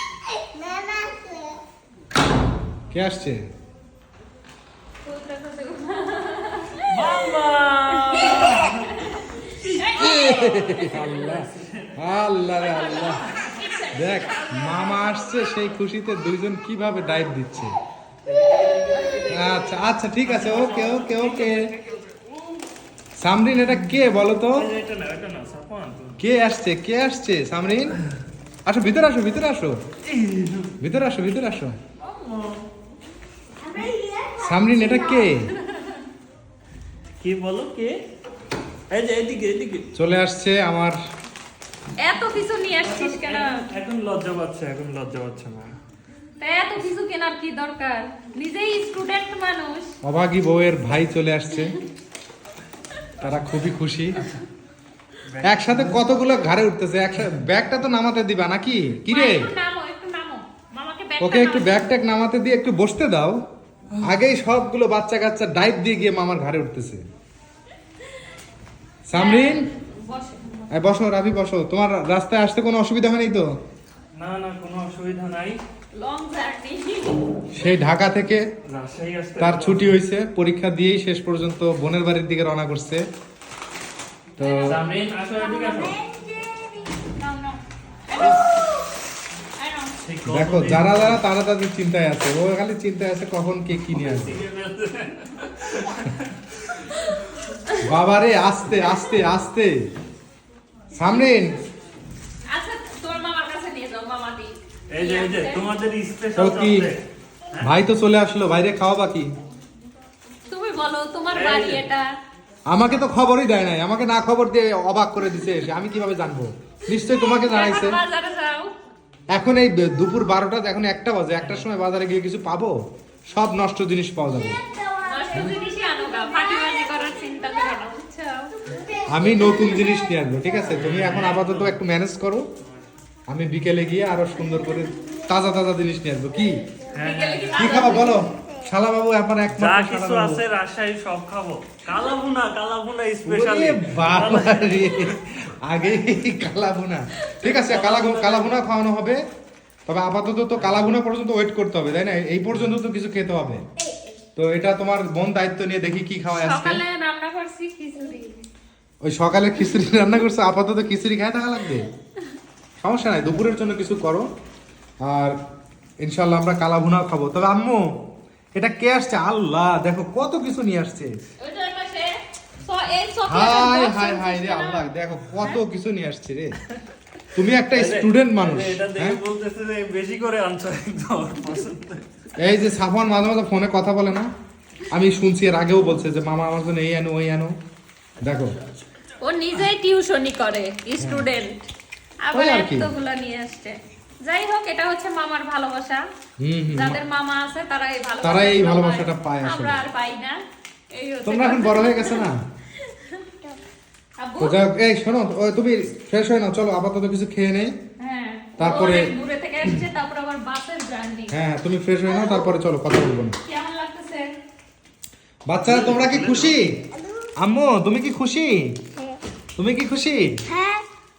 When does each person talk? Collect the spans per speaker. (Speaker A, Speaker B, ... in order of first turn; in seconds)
Speaker A: 0.6-1.6, 33.6-35.2, 85.7-86.9, 124.6-125.6, 128.7-129.9, 137.9-138.2, 220.5-220.8
Speaker B: 2.9-3.5, 9.9-13.2, 13.9-17.7, 19.2-21.7, 23.2-24.7, 26.2-28.0, 28.7-29.8, 30.8-31.8, 34.4-35.5, 40.0-41.0, 50.0-51.8, 53.2-54.3, 55.4-59.5, 61.2-63.4, 64.0-67.0, 69.1-69.7, 70.7-73.5, 77.5-78.5, 79.4-83.0, 84.4-84.8, 90.3-94.4, 97.8-99.8, 100.9-101.6, 106.4-106.9, 107.6-109.3, 112.7-118.0, 119.3-122.8, 123.3-124.6, 129.1-132.5, 133.3-136.6, 137.5-140.4, 143.2-149.2, 149.9-153.7, 154.4-156.8, 159.0-161.9, 162.8-164.3, 165.0-165.4, 166.0-167.9, 168.6-171.1, 173.3-176.6, 177.3-179.2, 182.4-184.3, 184.9-187.6, 188.2-188.6, 191.0-191.3, 192.3-192.9, 196.4-197.0, 198.2-199.8, 201.3-202.4, 204.4-207.8, 208.6-209.1, 211.3-213.4, 215.5-216.9, 217.4-218.8, 219.6-220.5
Speaker C: 5.0-7.2, 8.1-11.1, 12.5-15.5, 32.0-32.5, 42.0-43.6, 46.4-49.9, 59.1-61.9, 69.2-70.7, 75.9-77.2, 84.4-84.8, 87.2-88.8, 89.6-90.0, 102.5-105.7, 110.5-112.1, 117.2-118.7, 125.0-128.5, 137.0-138.2, 156.4-158.4, 171.4-174.9, 189.2-191.6, 192.2-196.1, 196.7-200.4, 200.9-202.3, 202.8-203.2, 204.2-204.6, 208.0-211.3, 213.4-214.3
Speaker D: 6.9-8.9, 10.7-12.0, 13.2-13.6, 18.3-19.6, 20.2-22.0, 24.5-26.2, 30.1-30.7, 37.2-38.0, 38.9-39.9, 42.8-45.7, 55.3-56.0, 74.2-75.6, 78.7-80.0, 84.6-86.0, 90.0-91.2, 94.0-97.1, 104.9-107.0, 111.3-111.8, 130.7-131.8, 136.9-137.7, 139.5-145.2, 147.5-148.6, 150.6-150.9, 177.7-182.1, 188.2-188.8, 215.6-216.6